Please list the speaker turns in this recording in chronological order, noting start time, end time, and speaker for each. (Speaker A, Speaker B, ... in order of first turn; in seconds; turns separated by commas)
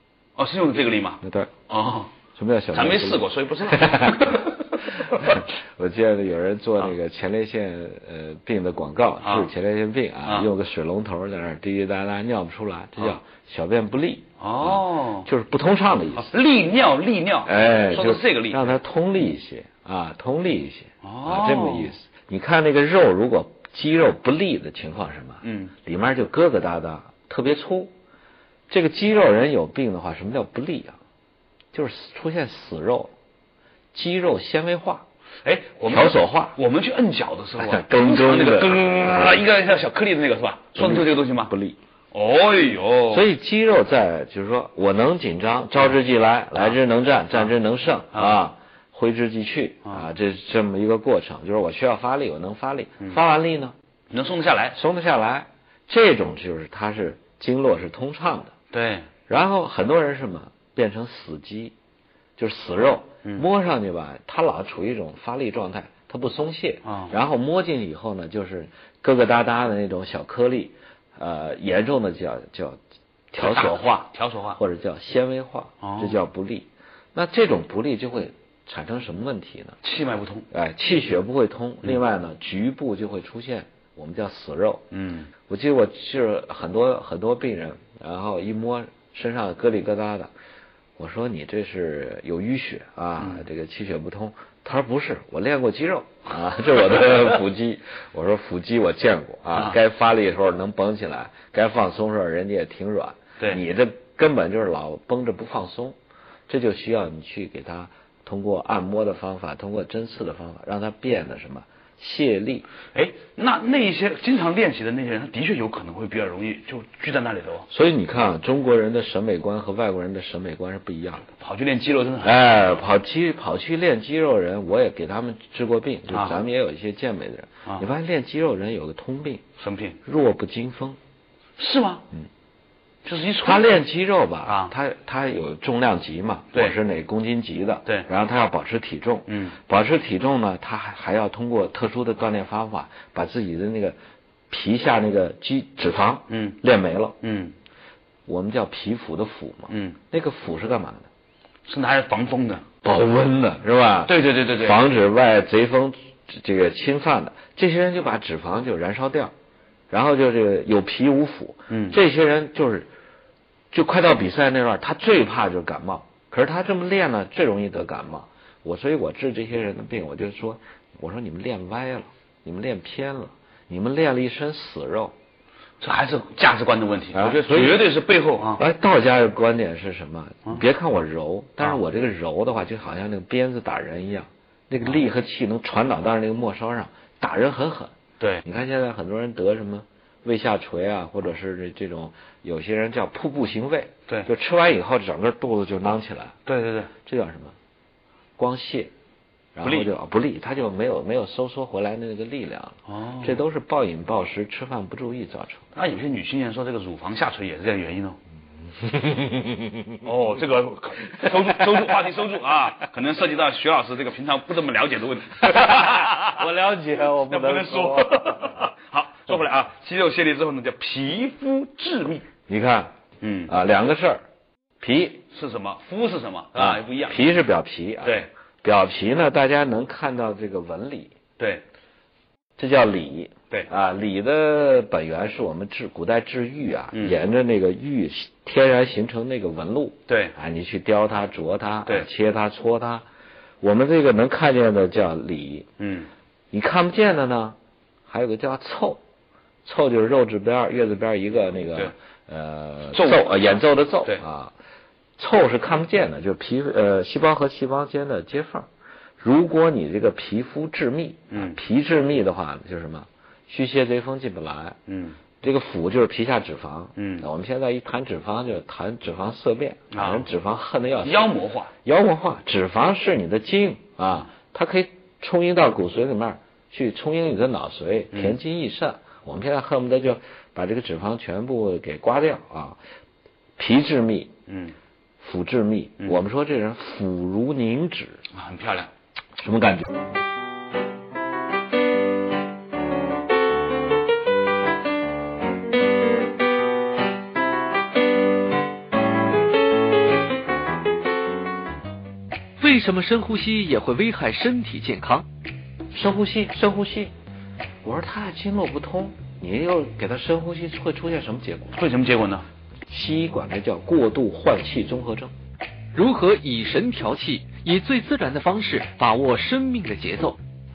Speaker A: 0.4-2.1, Speaker B: 1.2-1.5, Speaker B: 2.3-4.5, Speaker A: 2.7-5.4, Speaker B: 5.0-16.3, Speaker A: 9.2-9.5, Speaker A: 14.4-15.3, Speaker A: 16.1-18.8, Speaker B: 17.4-27.9, Speaker A: 21.0-21.9, Speaker A: 25.4-25.7, Speaker B: 28.7-31.0, Speaker B: 31.7-33.1, Speaker B: 33.9-35.0, Speaker A: 35.4-41.5, Speaker B: 35.9-36.6, Speaker B: 37.6-39.4, Speaker B: 40.8-41.8, Speaker A: 42.1-43.2, Speaker B: 43.1-53.7, Speaker A: 48.1-48.4, Speaker A: 54.1-54.8, Speaker B: 54.7-58.5, Speaker A: 58.7-59.1, Speaker B: 59.3-61.7, Speaker B: 62.4-72.8, Speaker A: 66.8-67.1, Speaker B: 73.3-79.8, Speaker A: 73.4-74.6, Speaker A: 75.8-76.2, Speaker A: 79.8-80.5, Speaker B: 80.5-84.8, Speaker A: 84.9-85.3, Speaker B: 85.5-90.3, Speaker B: 91.0-106.0, Speaker B: 106.5-112.7, Speaker A: 112.9-117.7, Speaker B: 117.7-121.2, Speaker A: 121.2-122.9, Speaker B: 122.2-129.4, Speaker A: 126.1-126.4, Speaker A: 129.6-130.0, Speaker B: 130.0-131.0, Speaker A: 131.6-132.0, Speaker A: 133.0-133.8, Speaker B: 133.4-144.0, Speaker A: 134.4-134.7, Speaker A: 139.3-139.5, Speaker B: 144.5-147.2, Speaker A: 146.3-146.6, Speaker A: 147.2-147.5, Speaker B: 148.3-151.1, Speaker A: 149.7-149.9, Speaker A: 151.7-152.6, Speaker B: 152.8-159.3, Speaker A: 154.1-154.8, Speaker B: 159.9-162.9, Speaker A: 161.7-162.0, Speaker B: 163.7-175.1, Speaker A: 175.8-178.6, Speaker B: 177.1-177.9, Speaker B: 178.6-187.9, Speaker A: 188.2-188.4, Speaker B: 188.4-196.4, Speaker A: 196.4-196.9, Speaker B: 197.1-197.5, Speaker B: 198.4-198.9, Speaker B: 199.5-205.7, Speaker A: 199.6-199.9, Speaker A: 202.9-203.4, Speaker A: 205.7-208.2, Speaker B: 208.9-209.8, Speaker A: 210.0-216.4, Speaker B: 211.1-211.8, Speaker B: 215.4-218.5, Speaker A: 217.2-222.3, Speaker B: 222.5-222.9, Speaker A: 223.2-223.5, Speaker B: 223.5-224.2, Speaker B: 224.8-225.2, Speaker A: 225.3-227.2, Speaker B: 226.6-231.1, Speaker A: 228.0-228.3, Speaker A: 231.4-231.6, Speaker B: 232.6-243.0, Speaker A: 240.1-240.3, Speaker B: 243.6-245.7, Speaker A: 245.8-246.1, Speaker B: 246.5-247.6, Speaker B: 248.1-249.0, Speaker B: 249.6-254.5, Speaker A: 252.9-253.2, Speaker B: 255.2-258.7, Speaker B: 259.2-264.8, Speaker A: 261.3-261.6, Speaker A: 264.9-265.2, Speaker B: 265.4-271.3, Speaker A: 266.9-267.2, Speaker A: 269.9-270.2, Speaker A: 271.0-271.7, Speaker B: 271.8-282.8, Speaker A: 278.1-278.4, Speaker B: 283.6-284.3, Speaker A: 284.5-284.7, Speaker B: 285.2-288.2, Speaker A: 288.3-288.9, Speaker B: 289.4-289.9, Speaker C: 302.6-305.2, Speaker B: 305.9-307.1, Speaker B: 307.8-311.8, Speaker A: 311.7-312.4, Speaker B: 312.9-315.3, Speaker C: 315.9-320.4